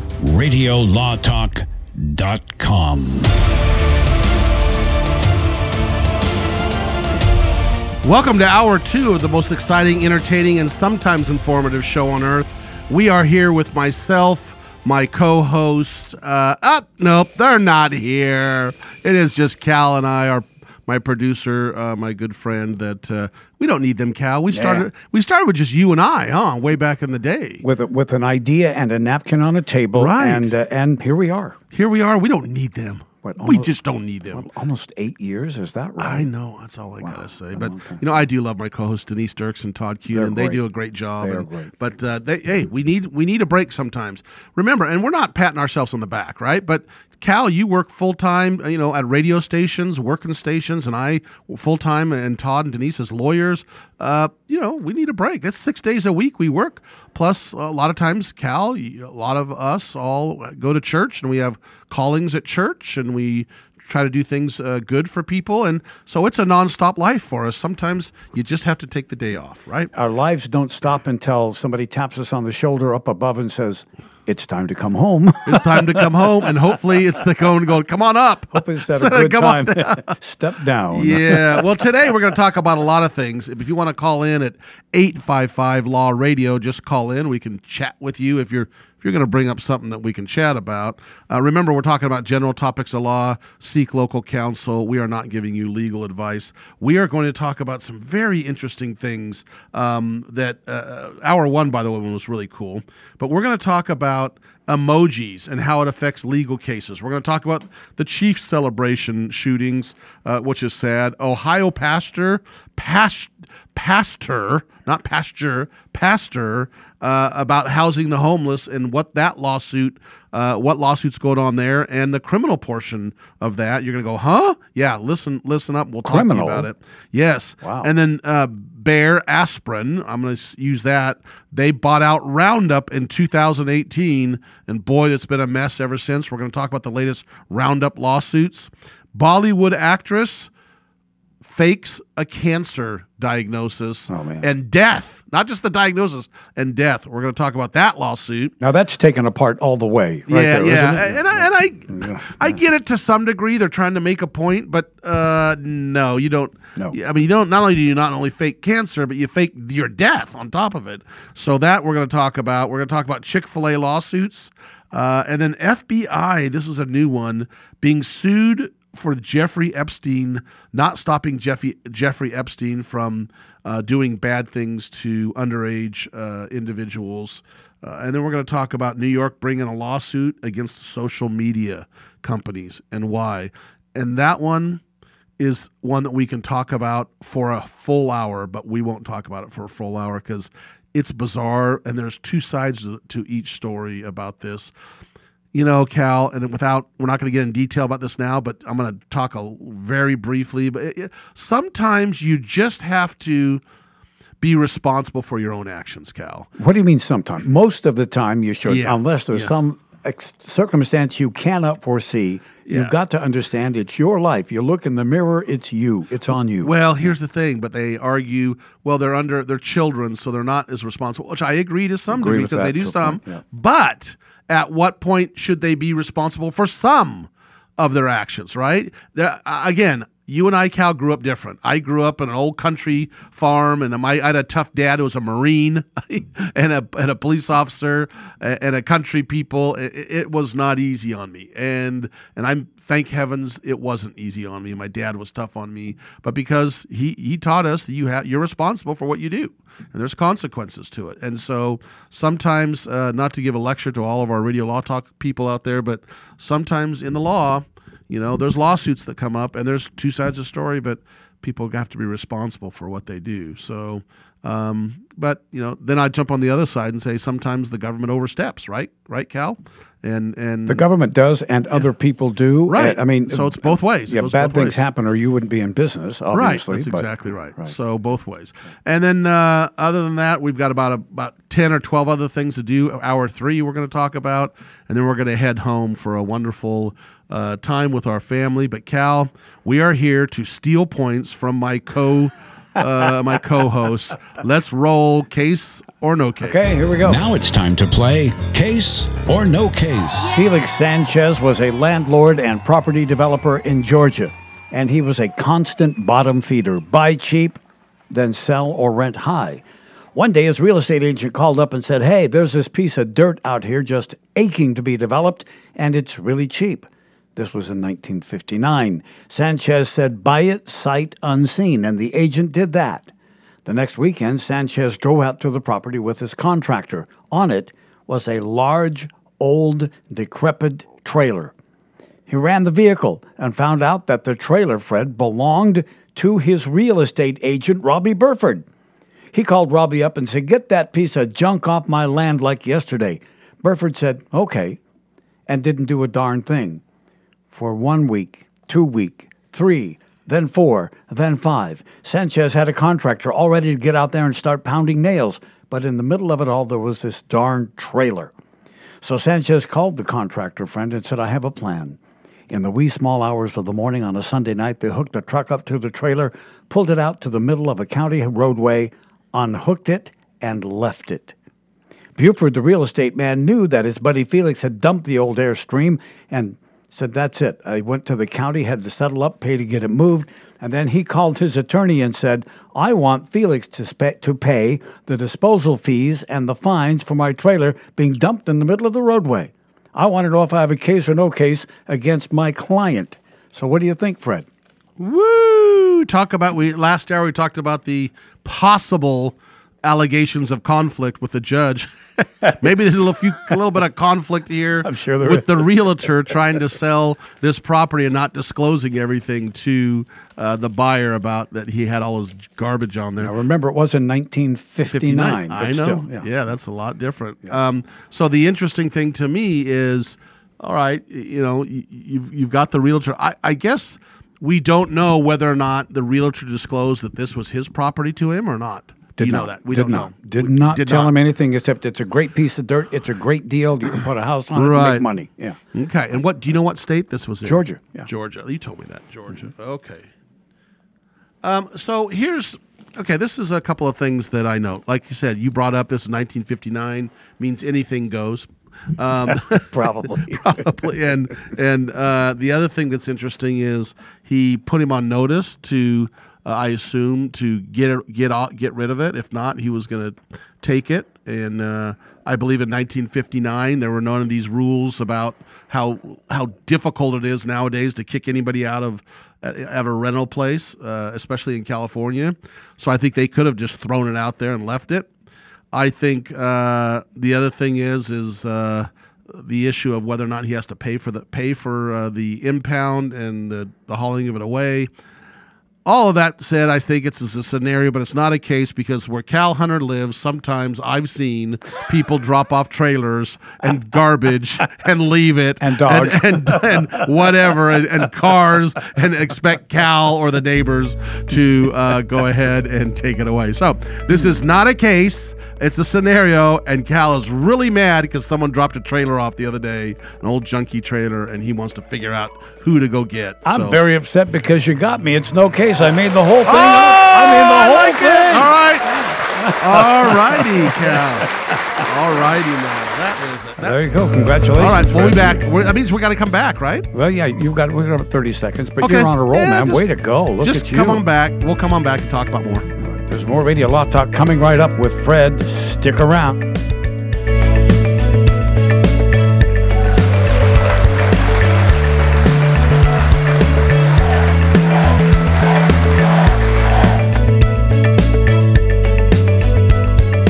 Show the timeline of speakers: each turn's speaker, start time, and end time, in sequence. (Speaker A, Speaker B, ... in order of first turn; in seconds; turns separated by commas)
Speaker A: 0.2-3.3, Speaker B: 8.0-27.6, Speaker C: 24.5-24.9, Speaker C: 27.6-31.6, Speaker B: 29.9-30.5, Speaker B: 31.7-34.5, Speaker C: 33.2-33.8, Speaker C: 34.3-36.3, Speaker B: 36.0-69.9, Speaker C: 37.0-38.2, Speaker C: 40.1-40.6, Speaker C: 41.2-41.7, Speaker C: 69.9-76.9, Speaker B: 75.5-80.1, Speaker C: 78.5-81.7, Speaker B: 80.9-140.5, Speaker C: 126.0-126.7, Speaker C: 127.6-127.9, Speaker B: 141.4-148.5, Speaker C: 144.1-144.5, Speaker C: 148.6-152.6, Speaker B: 150.3-184.8, Speaker B: 185.4-194.7, Speaker B: 195.5-203.6, Speaker B: 204.4-206.5, Speaker C: 206.6-217.1, Speaker B: 208.7-209.5, Speaker B: 212.7-212.9, Speaker B: 216.6-270.9, Speaker C: 222.1-223.4, Speaker C: 270.7-277.7, Speaker B: 272.7-274.8, Speaker B: 276.3-296.6, Speaker C: 296.4-297.2, Speaker A: 297.0-300.3, Speaker C: 300.3-323.1, Speaker C: 323.6-331.5, Speaker C: 332.3-338.6, Speaker C: 339.3-344.8, Speaker C: 345.5-346.8, Speaker C: 347.5-358.3, Speaker C: 359.0-362.0, Speaker C: 362.5-371.3, Speaker C: 372.1-394.5, Speaker B: 395.0-401.9, Speaker B: 402.5-413.3, Speaker C: 404.8-405.9, Speaker C: 413.2-416.3, Speaker B: 414.9-431.1, Speaker C: 429.2-435.6, Speaker B: 434.5-435.1, Speaker B: 435.7-440.1, Speaker C: 437.4-438.1, Speaker B: 441.4-449.7, Speaker C: 449.3-450.9, Speaker B: 450.3-475.1, Speaker B: 475.7-484.9, Speaker B: 485.8-513.8, Speaker C: 495.6-497.1, Speaker C: 504.1-504.4, Speaker C: 513.4-521.8, Speaker B: 516.4-526.9, Speaker C: 523.6-525.6, Speaker C: 526.9-531.0, Speaker B: 528.8-532.7, Speaker C: 532.8-536.5